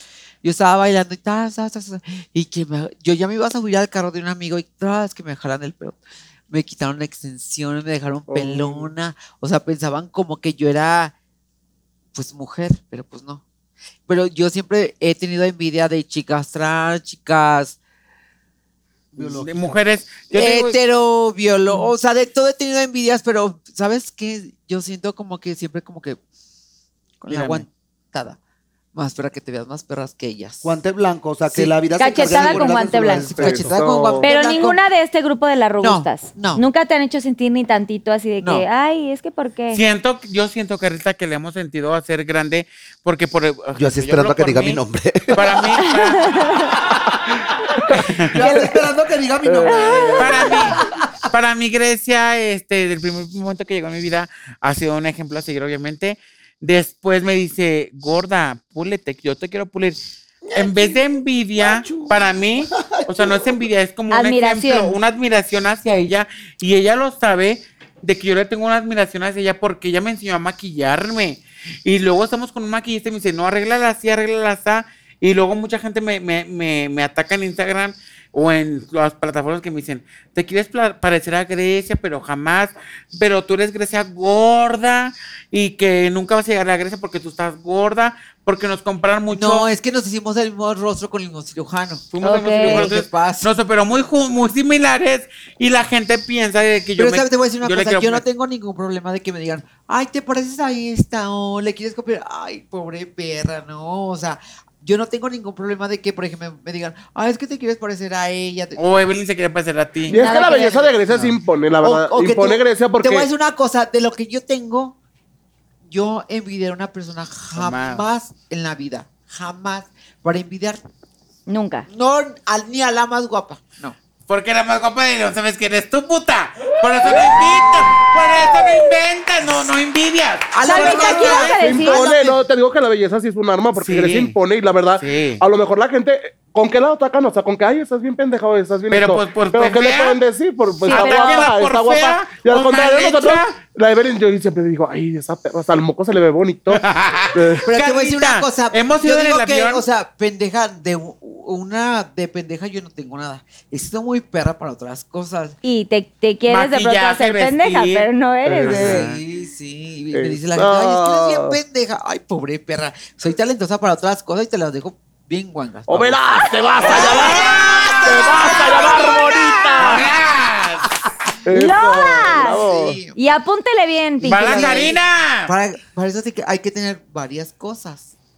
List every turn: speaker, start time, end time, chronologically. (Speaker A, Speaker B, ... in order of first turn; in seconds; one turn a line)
Speaker A: 0.4-6.0
Speaker A: 6.5-11.1
Speaker B: 8.3-8.9
Speaker A: 12.1-13.4
Speaker A: 14.1-17.8
Speaker C: 19.1-19.5
Speaker D: 19.2-20.8
Speaker A: 20.3-26.2
Speaker A: 27.2-28.4
Speaker D: 27.3-27.6
Speaker A: 28.9-30.7
Speaker C: 30.6-33.8
Speaker A: 31.5-34.8
Speaker E: 32.0-33.3
Speaker B: 33.2-34.3
Speaker E: 34.2-39.8
Speaker A: 35.8-36.6
Speaker A: 38.4-38.6
Speaker D: 39.7-44.8
Speaker C: 43.7-45.9
Speaker D: 45.3-46.7
Speaker E: 46.2-46.7
Speaker D: 47.9-48.4
Speaker C: 48.3-50.9
Speaker B: 49.4-50.4
Speaker E: 49.7-50.2
Speaker D: 50.2-60.0
Speaker C: 60.4-61.0
Speaker D: 60.5-89.7
Speaker C: 61.6-63.6
Speaker E: 64.1-65.0
Speaker A: 89.3-93.5
Speaker D: 92.1-98.2
Speaker E: 92.2-92.9
Speaker A: 97.0-108.8
Speaker D: 108.8-110.2
Speaker B: 110.1-113.3
Speaker E: 110.1-110.9
Speaker A: 110.2-115.0
Speaker A: 115.9-120.8
Speaker D: 117.5-118.0
Speaker E: 121.5-121.8
Speaker A: 121.9-124.0
Speaker D: 124.3-131.5
Speaker A: 130.5-132.4
Speaker E: 130.6-132.1
Speaker B: 130.8-146.8
Speaker D: 133.8-134.3
Speaker D: 135.0-135.4
Speaker D: 138.9-140.2
Speaker E: 140.8-141.5
Speaker D: 140.9-143.6
Speaker D: 146.7-149.8
Speaker B: 147.3-147.7
Speaker A: 147.6-155.6
Speaker E: 155.6-159.0
Speaker D: 156.5-159.2
Speaker B: 158.4-159.0
Speaker A: 158.6-166.2
Speaker B: 160.1-161.6
Speaker B: 165.9-170.1
Speaker A: 166.8-167.3
Speaker D: 166.8-169.2
Speaker E: 168.1-170.0
Speaker D: 169.8-171.0
Speaker B: 171.4-173.0
Speaker E: 171.5-172.6
Speaker A: 172.3-173.2
Speaker E: 173.1-174.9
Speaker D: 174.2-175.5
Speaker A: 174.4-174.9
Speaker A: 175.5-178.1